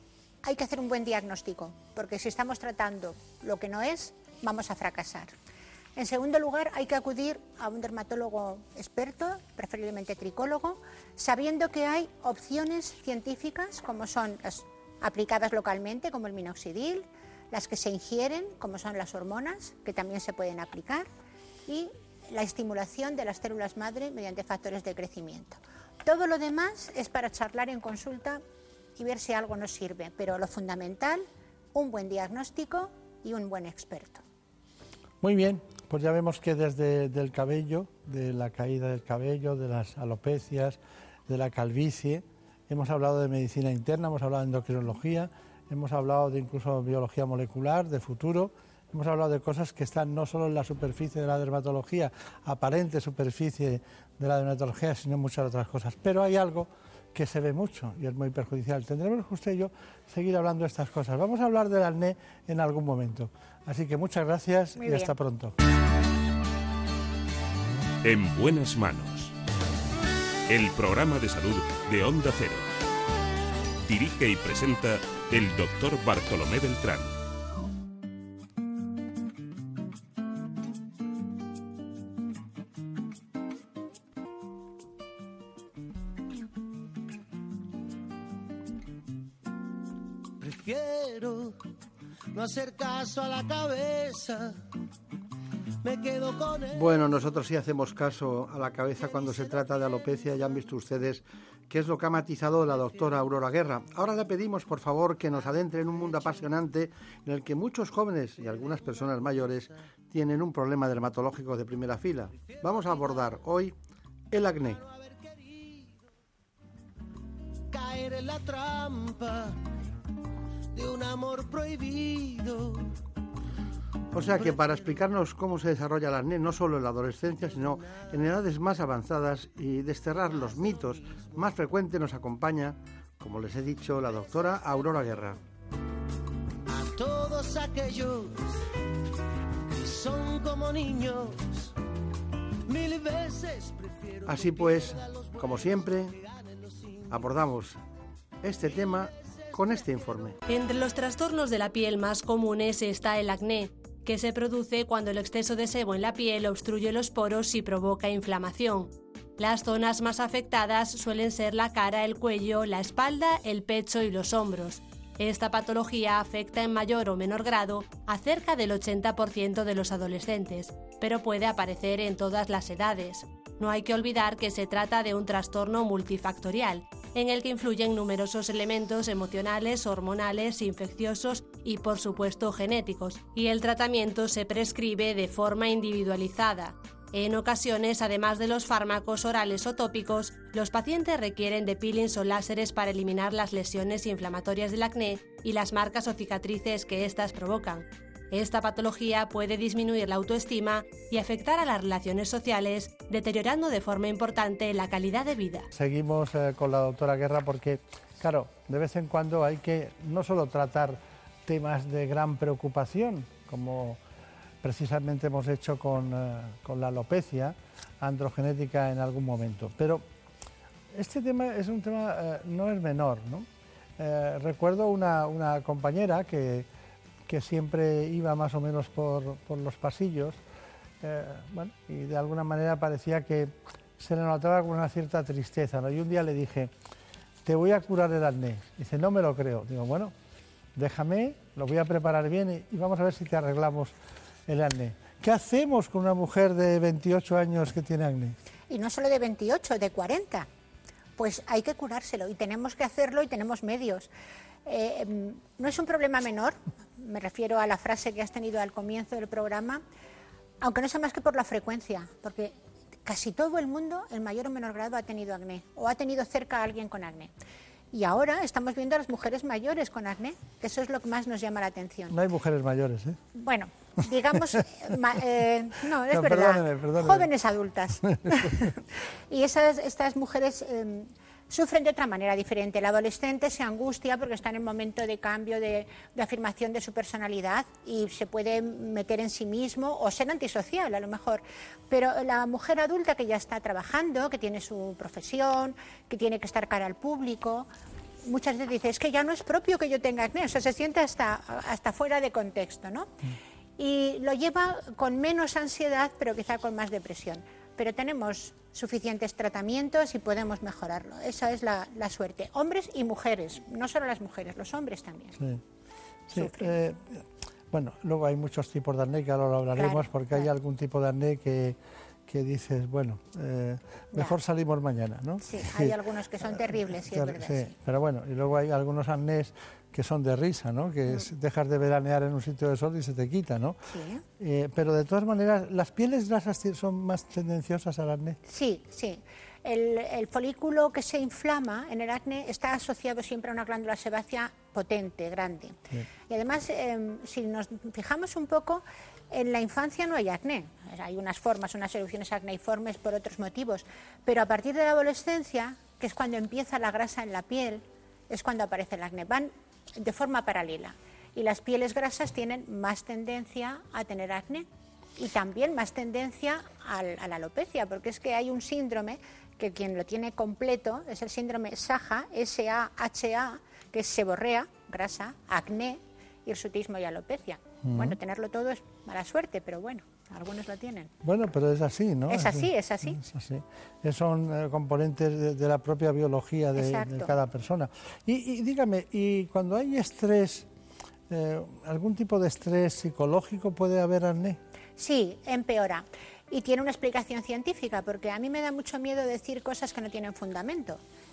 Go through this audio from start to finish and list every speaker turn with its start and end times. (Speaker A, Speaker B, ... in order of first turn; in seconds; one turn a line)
Speaker A: 0.4-5.3
Speaker A: 6.0-21.1
Speaker A: 21.7-28.4
Speaker A: 28.9-34.2
Speaker B: 35.2-65.5
Speaker A: 64.8-65.1
Speaker C: 68.0-69.3
Speaker C: 70.5-72.7
Speaker C: 73.9-77.1
Speaker D: 90.4-91.6
Speaker D: 92.3-94.6
Speaker D: 95.8-96.8
Speaker B: 96.7-113.7
Speaker D: 99.0-99.7
Speaker B: 114.3-114.8
Speaker D: 114.8-115.9
Speaker D: 117.7-119.7
Speaker D: 120.7-122.9
Speaker B: 124.1-135.4
Speaker D: 124.2-125.0
Speaker D: 136.7-138.5
Speaker D: 139.8-141.7
Speaker D: 142.7-147.1
Speaker B: 144.2-146.2
Speaker B: 147.1-147.8
Speaker B: 148.4-150.3
Speaker D: 148.9-150.0
Speaker E: 150.5-205.7
Speaker B: 205.7-214.0
Speaker B: 214.6-220.1
Speaker B: 220.9-223.5
Speaker B: 224.0-226.7
Speaker B: 227.3-230.4
Speaker B: 231.0-236.7
Speaker B: 237.4-240.1
Speaker B: 240.8-243.9
Speaker B: 244.5-248.3
Speaker A: 248.7-250.5
Speaker A: 251.2-254.1
Speaker A: 254.7-259.8
Speaker A: 260.6-267.3
Speaker A: 267.9-272.2
Speaker B: 272.1-273.2
Speaker A: 273.3-278.8
Speaker B: 276.1-277.3
Speaker B: 278.0-278.7
Speaker A: 279.3-297.7
Speaker A: 298.2-303.1
Speaker A: 303.8-315.4
Speaker B: 315.4-315.6
Speaker B: 316.3-333.8
Speaker A: 316.3-316.7
Speaker A: 319.8-320.5
Speaker A: 325.4-327.7
Speaker A: 333.9-334.2
Speaker B: 334.4-338.4
Speaker A: 338.4-381.1
Speaker B: 377.8-378.2
Speaker B: 381.2-390.7
Speaker A: 382.3-383.2
Speaker A: 386.8-387.4
Speaker B: 391.3-394.6
Speaker A: 395.0-401.0